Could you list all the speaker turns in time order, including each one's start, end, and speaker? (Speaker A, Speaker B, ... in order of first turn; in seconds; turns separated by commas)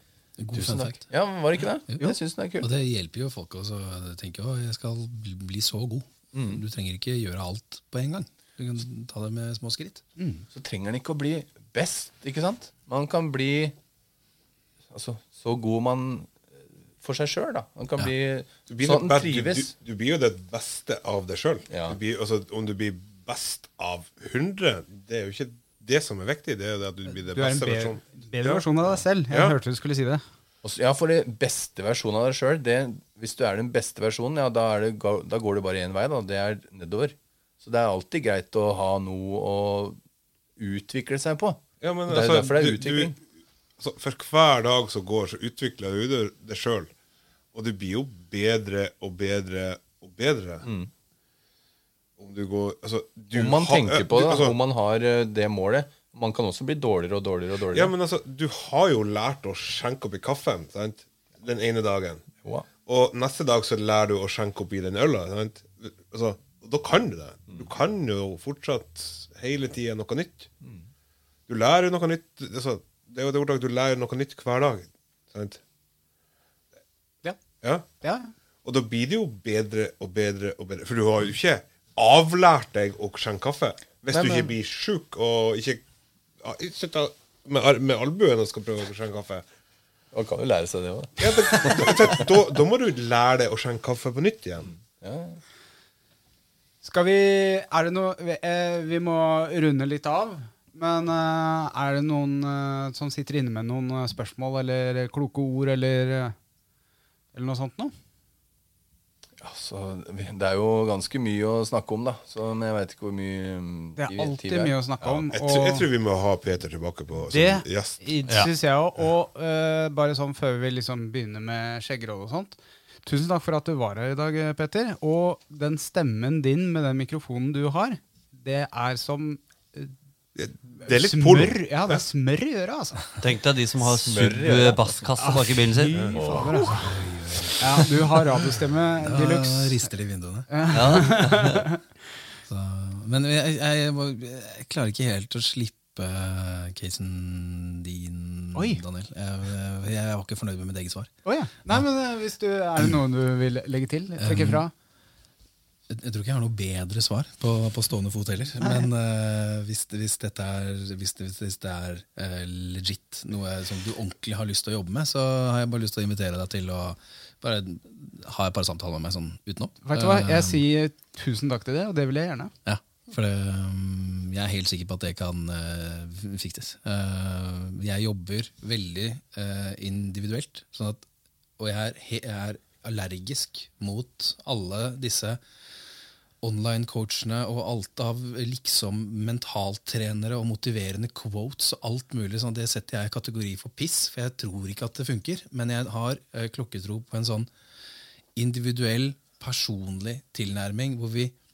Speaker A: 0.4-1.1, Speaker B: 0.5-2.7, Speaker A: 1.9-10.0, Speaker B: 6.3-6.6, Speaker C: 10.2-10.4, Speaker B: 10.5-13.7, Speaker B: 14.9-19.7, Speaker D: 18.7-28.6, Speaker B: 21.7-22.0, Speaker C: 27.3-30.2, Speaker D: 29.3-29.6, Speaker B: 30.6-40.0, Speaker B: 40.6-43.1, Speaker D: 41.8-43.1, Speaker D: 43.8-46.9, Speaker D: 47.5-50.6, Speaker B: 50.6-50.9, Speaker D: 52.2-54.5, Speaker B: 53.3-57.9, Speaker D: 57.7-62.3, Speaker B: 62.4-62.7, Speaker D: 62.9-70.5, Speaker D: 71.5-75.6, Speaker D: 77.6-77.8, Speaker C: 78.0-78.3, Speaker D: 78.6-85.8, Speaker B: 84.1-84.5, Speaker D: 86.4-89.4, Speaker B: 90.1-92.2, Speaker D: 91.2-94.7, Speaker B: 95.0-95.4, Speaker C: 96.8-106.3, Speaker C: 107.3-107.9, Speaker B: 109.4-115.2, Speaker C: 114.0-115.9, Speaker D: 115.3-118.1, Speaker C: 117.3-129.9, Speaker D: 130.3-132.0, Speaker C: 130.8-133.0, Speaker E: 133.2-136.2, Speaker B: 133.8-134.9, Speaker C: 135.2-136.9, Speaker B: 136.1-136.5, Speaker A: 136.9-138.2, Speaker C: 137.6-139.9, Speaker A: 138.9-140.5, Speaker C: 140.5-141.8, Speaker E: 140.7-141.6, Speaker A: 142.5-151.1, Speaker C: 148.5-148.8, Speaker C: 151.2-154.7, Speaker A: 154.2-154.6, Speaker A: 155.9-170.7, Speaker C: 169.8-172.5, Speaker A: 172.6-181.1, Speaker A: 181.6-185.4, Speaker A: 186.4-197.5, Speaker A: 198.3-201.3